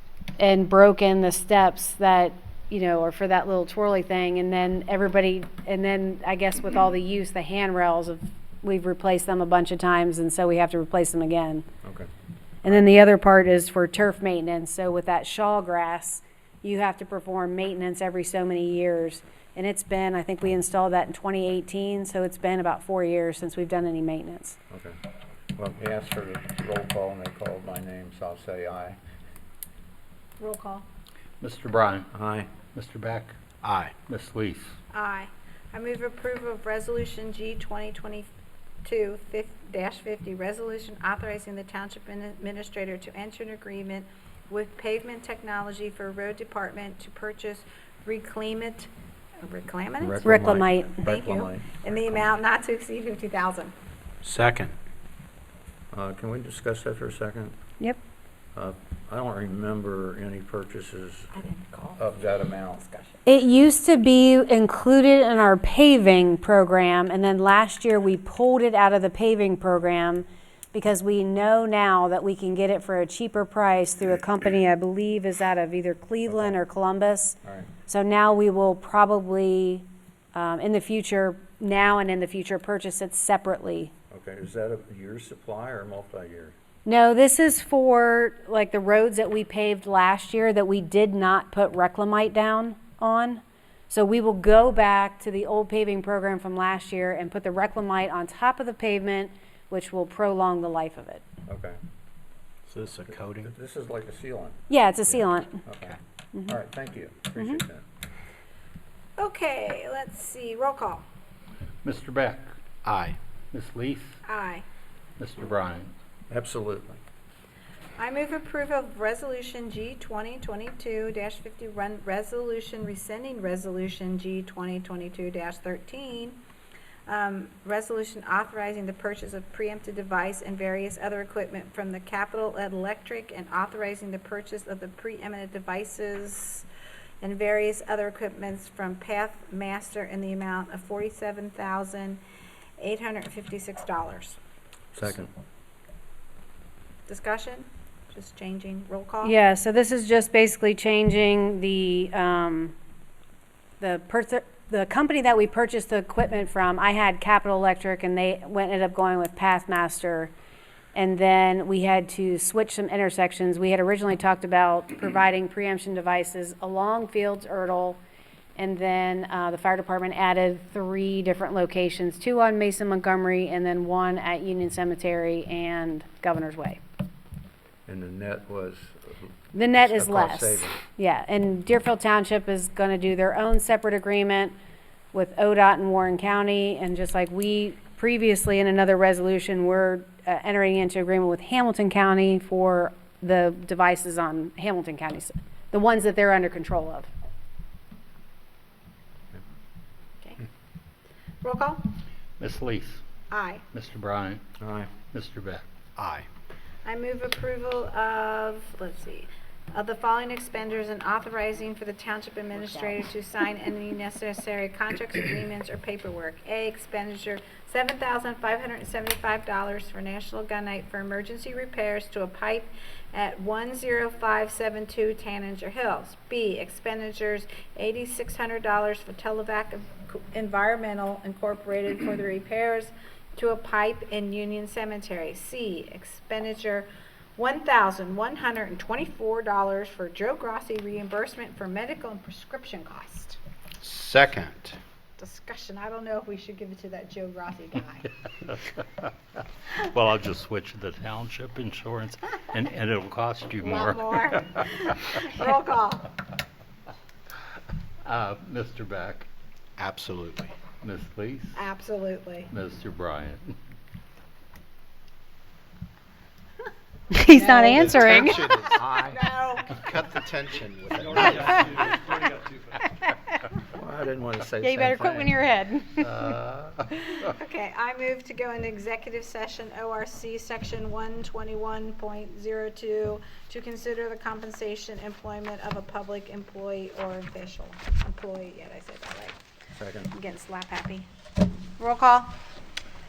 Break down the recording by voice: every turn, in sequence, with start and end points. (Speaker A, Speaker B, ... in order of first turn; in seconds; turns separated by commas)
Speaker A: 0.4-11.7, Speaker B: 11.8-12.1, Speaker A: 12.6-24.6, Speaker B: 25.6-29.0, Speaker C: 30.4-30.8, Speaker D: 31.4-32.1, Speaker B: 32.1-32.5, Speaker D: 32.7-33.3, Speaker E: 33.6-33.9, Speaker D: 34.1-34.8, Speaker C: 34.9-38.3, Speaker C: 38.8-48.9, Speaker C: 49.4-53.7, Speaker B: 50.0-51.8, Speaker A: 50.2-51.0, Speaker E: 54.2-54.7, Speaker B: 55.9-57.5, Speaker B: 58.5-61.3, Speaker C: 61.3-62.0, Speaker B: 62.0-62.9, Speaker A: 63.2-77.3, Speaker B: 77.4-77.7, Speaker A: 77.9-83.9, Speaker B: 84.1-86.5, Speaker A: 86.8-101.2, Speaker B: 101.5-101.8, Speaker E: 102.7-103.5, Speaker B: 103.1-107.8, Speaker A: 104.7-105.6, Speaker A: 107.4-107.6, Speaker C: 109.2-111.0, Speaker D: 111.8-112.5, Speaker E: 112.8-113.2, Speaker D: 113.5-114.2, Speaker C: 114.2-114.6, Speaker D: 115.2-115.9, Speaker B: 116.3-117.0, Speaker C: 118.0-126.4, Speaker C: 127.1-136.7, Speaker C: 137.2-142.2, Speaker C: 142.8-144.4, Speaker B: 144.9-145.3, Speaker C: 147.1-149.3, Speaker A: 149.2-152.7, Speaker A: 153.8-160.3, Speaker A: 160.9-168.0, Speaker A: 168.6-176.8, Speaker B: 177.8-180.8, Speaker A: 179.5-184.5, Speaker A: 185.1-197.1, Speaker C: 201.4-201.8, Speaker D: 202.4-203.0, Speaker C: 203.3-203.6, Speaker D: 203.7-204.4, Speaker B: 204.6-204.9, Speaker D: 205.1-205.6, Speaker E: 205.9-206.3, Speaker C: 206.8-243.4, Speaker E: 243.8-244.8, Speaker C: 245.2-248.1, Speaker D: 248.4-249.1, Speaker D: 249.7-254.4, Speaker C: 253.6-256.1, Speaker D: 258.0-259.3, Speaker E: 259.8-260.5, Speaker D: 260.8-261.6, Speaker C: 261.6-262.5, Speaker D: 262.5-263.6, Speaker A: 267.1-268.5, Speaker C: 267.3-269.8, Speaker E: 267.6-271.8, Speaker B: 273.7-275.4, Speaker A: 274.6-276.3, Speaker D: 276.0-276.8, Speaker C: 277.2-289.4, Speaker B: 289.8-290.1, Speaker C: 290.1-291.1, Speaker C: 291.8-292.4